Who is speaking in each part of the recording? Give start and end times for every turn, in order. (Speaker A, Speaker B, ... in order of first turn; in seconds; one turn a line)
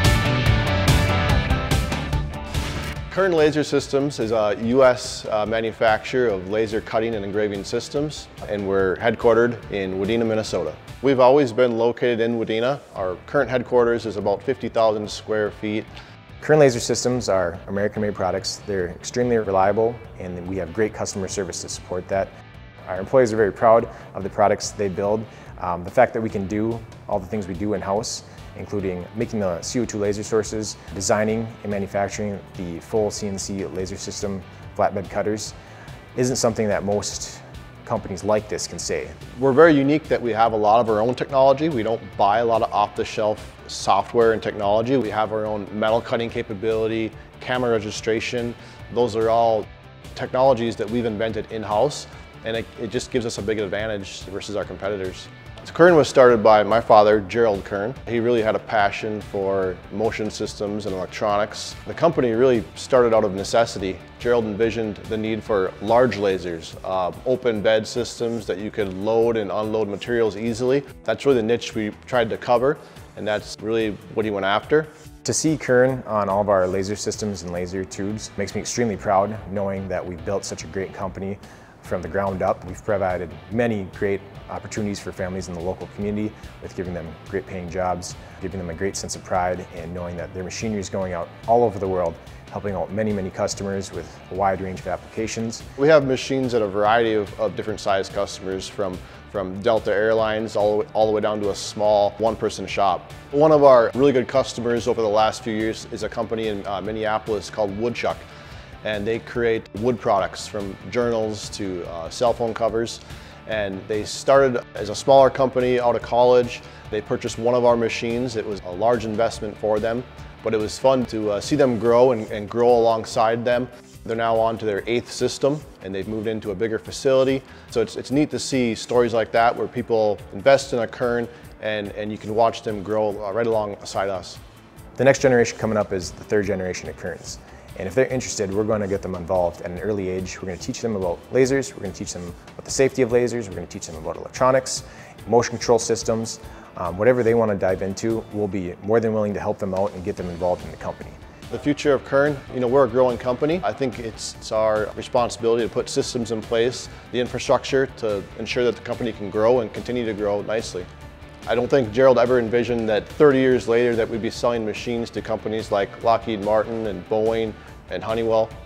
Speaker A: 3.1-15.9
Speaker B: 16.4-22.3
Speaker B: 22.9-35.5
Speaker B: 36.2-39.2
Speaker A: 39.3-74.9
Speaker B: 75.2-95.7
Speaker A: 95.8-108.3
Speaker A: 108.8-134.4
Speaker B: 135.0-151.2
Speaker A: 151.5-160.9
Speaker A: 161.5-168.5